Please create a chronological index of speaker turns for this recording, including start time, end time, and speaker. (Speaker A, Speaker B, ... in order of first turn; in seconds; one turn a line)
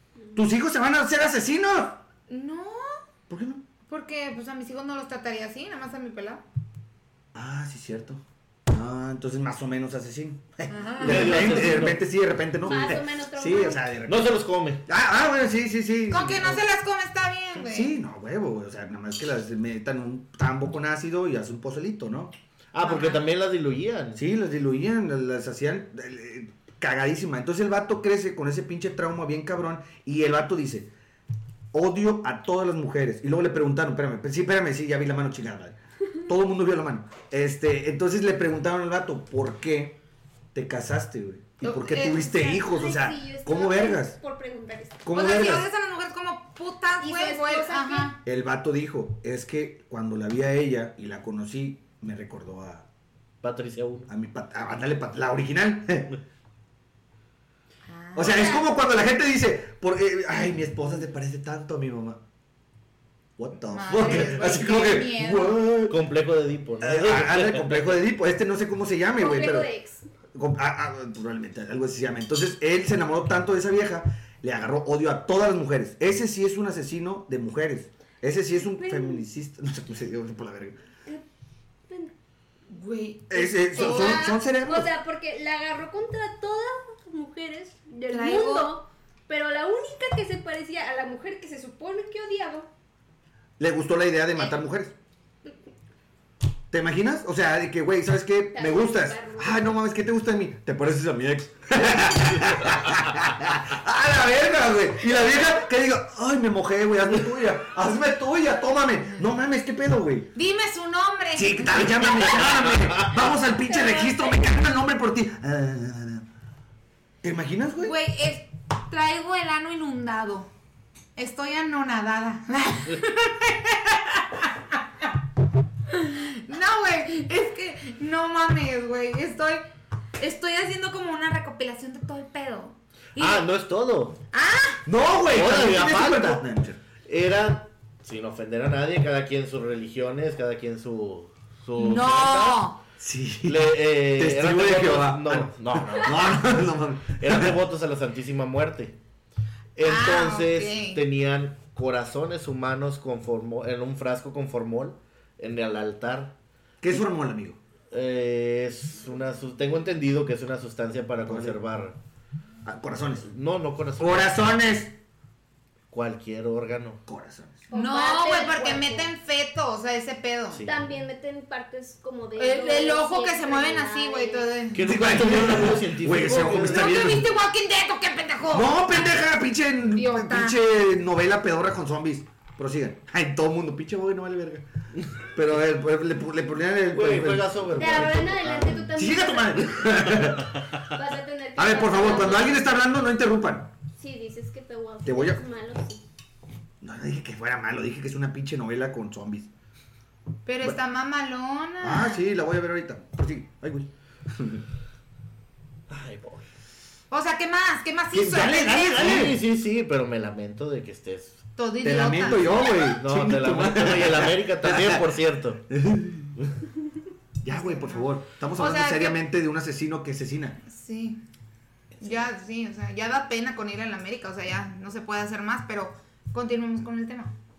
Speaker A: 0.3-2.0
Speaker B: 2.3-3.0
Speaker A: 3.3-3.6
Speaker B: 3.9-6.4
Speaker A: 7.3-14.4
Speaker B: 10.7-11.6
Speaker C: 11.0-12.0
Speaker D: 12.6-13.8
Speaker C: 14.1-14.8
Speaker A: 14.9-16.6
Speaker B: 16.1-17.9
Speaker A: 17.6-22.3
Speaker C: 22.7-24.2
Speaker B: 22.8-23.2
Speaker A: 24.2-30.9
Speaker A: 31.7-40.0
Speaker A: 40.5-44.2
Speaker B: 41.6-42.4
Speaker D: 42.3-45.3
Speaker A: 45.0-45.7
Speaker B: 45.1-48.2
Speaker D: 47.0-48.1
Speaker A: 48.2-52.9
Speaker C: 53.4-54.1
Speaker A: 54.1-56.2
Speaker B: 57.9-58.6
Speaker A: 58.1-62.2
Speaker A: 63.4-66.0
Speaker B: 63.7-65.6
Speaker C: 65.9-68.0
Speaker A: 66.8-69.7
Speaker D: 69.2-70.1
Speaker A: 70.3-80.8
Speaker D: 78.6-79.2
Speaker D: 81.9-82.1
Speaker B: 82.7-84.3
Speaker A: 83.3-84.9
Speaker D: 83.6-92.7
Speaker B: 88.1-88.8
Speaker A: 93.6-94.9
Speaker A: 96.7-110.3
Speaker D: 98.5-99.8
Speaker B: 110.3-112.4
Speaker A: 111.3-116.2
Speaker D: 113.7-114.4
Speaker A: 117.2-118.0
Speaker B: 117.8-120.5
Speaker B: 121.2-124.8
Speaker B: 125.9-129.6
Speaker B: 130.2-133.4
Speaker C: 133.2-134.2
Speaker B: 134.3-134.8
Speaker A: 134.8-136.8
Speaker C: 135.3-136.4
Speaker C: 137.1-142.6
Speaker B: 141.8-142.8
Speaker A: 143.0-147.6
Speaker C: 143.4-146.5
Speaker C: 147.2-149.0
Speaker C: 149.8-156.3
Speaker B: 149.8-151.0
Speaker A: 156.8-157.6
Speaker C: 157.9-162.0
Speaker A: 161.2-161.6
Speaker A: 162.7-163.3
Speaker C: 163.2-164.4
Speaker A: 164.0-164.9
Speaker C: 165.9-167.0
Speaker A: 167.1-167.6
Speaker D: 167.7-169.1
Speaker B: 167.7-170.6
Speaker C: 170.5-170.8
Speaker D: 170.7-174.5
Speaker B: 172.4-175.1
Speaker C: 174.7-176.9
Speaker A: 174.8-177.3
Speaker B: 176.5-178.8
Speaker A: 178.5-184.7
Speaker B: 179.9-180.6
Speaker A: 185.3-190.6
Speaker C: 186.9-188.8
Speaker D: 187.8-189.9
Speaker D: 190.9-192.7
Speaker A: 191.6-193.7
Speaker D: 194.0-196.0
Speaker A: 195.0-195.4
Speaker A: 196.8-199.5
Speaker B: 200.5-202.2
Speaker A: 201.8-204.7
Speaker C: 205.9-206.5
Speaker B: 207.1-209.3
Speaker A: 208.1-209.4
Speaker C: 208.9-211.4
Speaker B: 211.6-212.6
Speaker A: 211.8-216.4
Speaker C: 212.8-215.6
Speaker A: 217.4-220.6
Speaker B: 217.5-219.2
Speaker B: 220.7-221.2
Speaker B: 222.0-227.3